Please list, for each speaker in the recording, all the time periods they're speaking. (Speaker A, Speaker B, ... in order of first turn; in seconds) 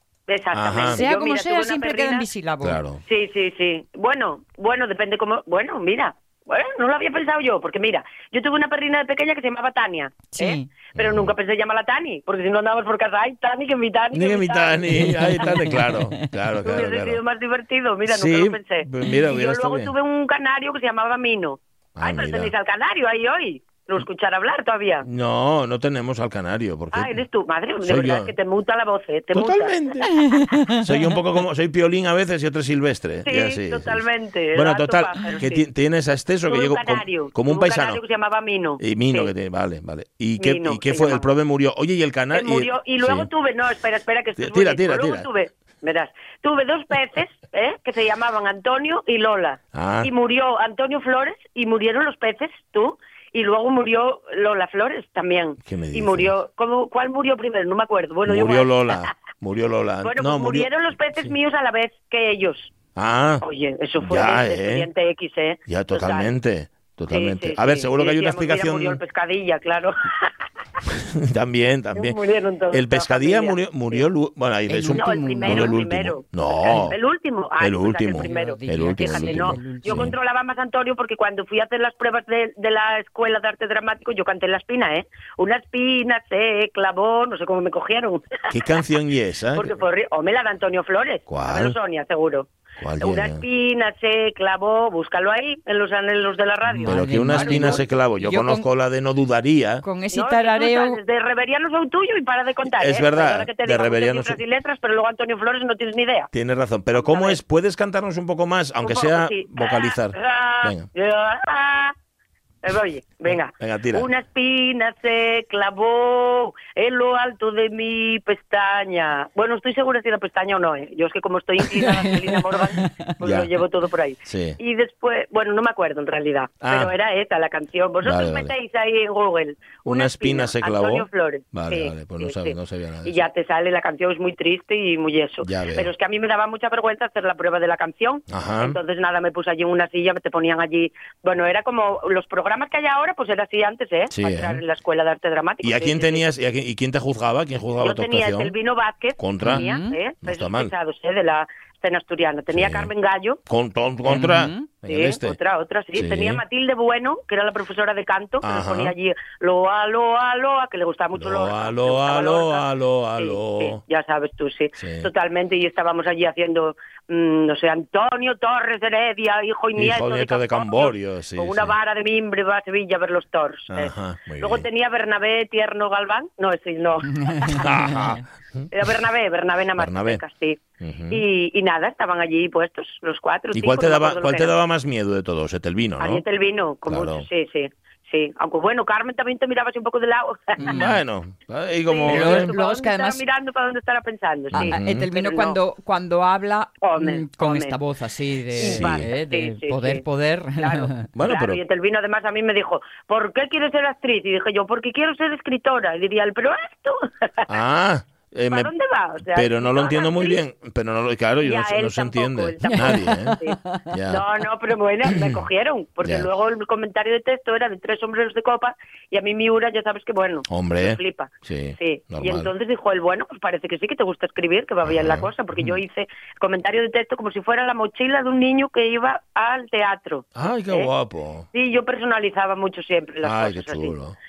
Speaker A: 0.3-2.3, 3.1-15.5, 16.6-25.1, 26.9-29.9, 33.3-35.6, 36.5-39.3, 40.4-41.3, 42.3-59.0, 60.0-62.7, 63.4-66.3, 67.1-70.3, 72.0-74.0, 74.9-88.4, 89.5-92.5, 93.0-97.8, 100.1-106.3, 106.9-107.4, 108.8-111.9, 112.6-146.2, 147.8-153.4, 154.9-162.7, 163.2-177.7, 178.7-184.5, 186.0-190.9, 191.9-195.6, 196.8-197.8, 198.6-200.0, 200.6-207.5, 208.5-210.4, 211.4-213.6, 214.1-230.9, 231.5-234.0
Speaker B: 0.5-1.0, 2.6-3.0, 11.0-11.3, 14.1-17.2, 18.1-19.9, 22.0-22.5, 25.0-27.2, 27.8-28.3, 29.3-30.2, 30.7-38.0, 38.8-43.3, 44.4-45.3, 49.7-50.1, 55.6-56.3, 58.3-60.7, 63.0-63.4, 64.0-64.9, 65.7-69.0, 70.9-72.2, 72.7-77.0, 77.6-80.2, 88.5-89.7, 91.3-91.8, 92.8-93.4, 96.8-99.8, 102.7-104.4, 106.3-110.9, 113.3-114.1, 123.2-123.5, 124.3-124.6, 126.6-126.9, 128.0-128.5, 129.9-133.2, 135.4-135.9, 138.3-138.8, 144.1-144.6, 145.6-148.5, 149.2-149.6, 150.2-150.7, 152.5-152.9, 153.5-155.4, 155.9-156.4, 158.4-158.9, 161.2-163.8, 164.8-165.1, 169.8-171.8, 173.7-174.7, 177.5-178.7, 179.8-180.2, 180.8-181.2, 183.5-186.2, 186.9-187.3, 190.6-192.5, 194.5-195.0, 198.6-199.1, 201.1-201.6, 207.5-208.7, 209.3-213.4, 213.9-214.2, 216.0-216.3, 220.5-222.5, 224.8-225.8, 230.4-231.5, 233.2-234.2
Speaker C: 0.9-2.8, 10.3-10.7, 14.9-16.3, 30.2-31.0, 74.7-75.8, 78.2-80.1, 96.7-98.7, 99.8-101.0, 121.8-123.1, 149.4-150.0, 154.1-154.7, 177.2-178.2, 190.6-190.9, 192.1-193.2, 194.5-201.1, 212.6-213.8